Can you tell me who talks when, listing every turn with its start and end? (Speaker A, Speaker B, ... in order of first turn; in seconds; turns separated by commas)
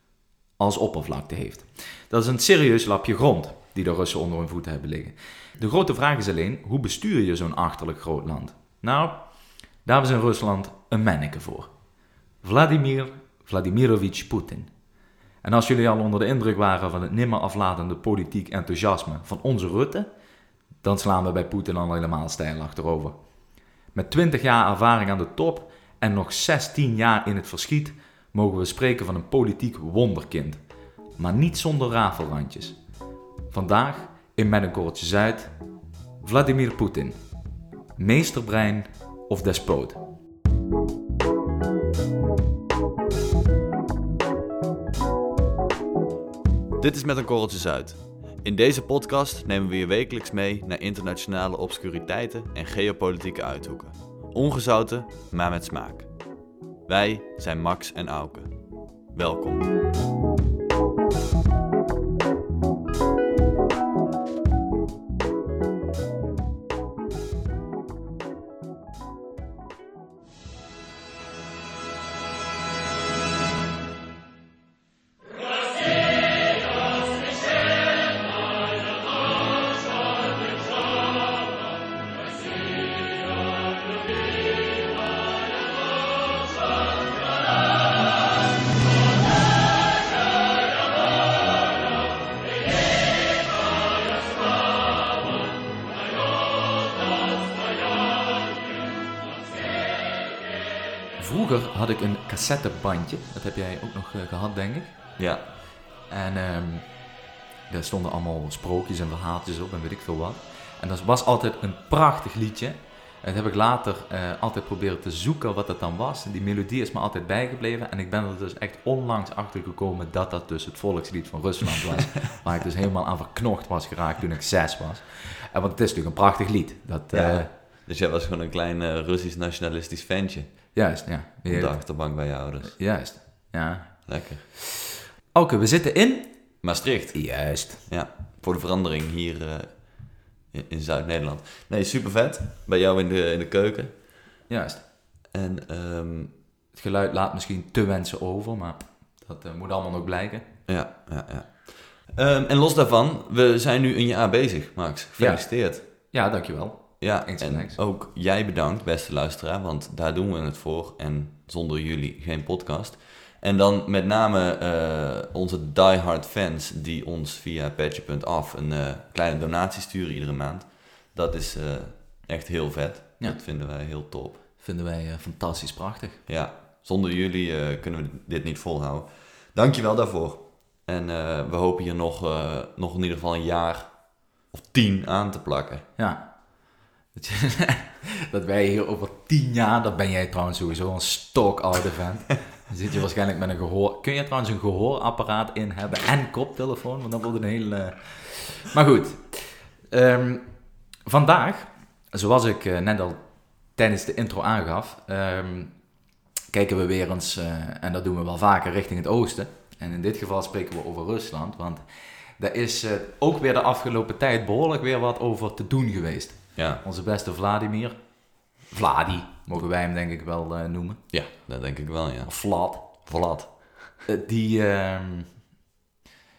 Speaker A: 0.6-11.7, Speaker A: 12.4-14.7, Speaker A: 15.4-20.1, Speaker A: 20.8-23.2, Speaker A: 23.9-30.6, Speaker A: 31.1-32.8, Speaker A: 33.5-35.6, Speaker A: 36.2-37.2, Speaker A: 38.0-40.0, Speaker B: 46.8-56.1, Speaker B: 56.9-59.7, Speaker A: 101.2-105.0, Speaker B: 105.2-105.4, Speaker A: 106.1-107.0, Speaker A: 107.7-127.5, Speaker B: 127.1-130.8, Speaker A: 130.7-134.7, Speaker B: 131.5-132.8, Speaker B: 134.1-134.4, Speaker A: 135.3-137.9, Speaker B: 136.6-144.0, Speaker A: 144.5-144.8, Speaker B: 145.3-146.3, Speaker A: 146.7-150.5, Speaker B: 150.7-155.8, Speaker A: 155.2-157.8, Speaker B: 157.0-174.4, Speaker A: 174.6-176.2, Speaker B: 176.3-185.8, Speaker A: 186.0-205.8, Speaker A: 206.5-211.8, Speaker A: 212.4-221.0, Speaker B: 216.6-216.8, Speaker B: 221.1-223.9, Speaker A: 222.3-222.9, Speaker A: 224.1-225.4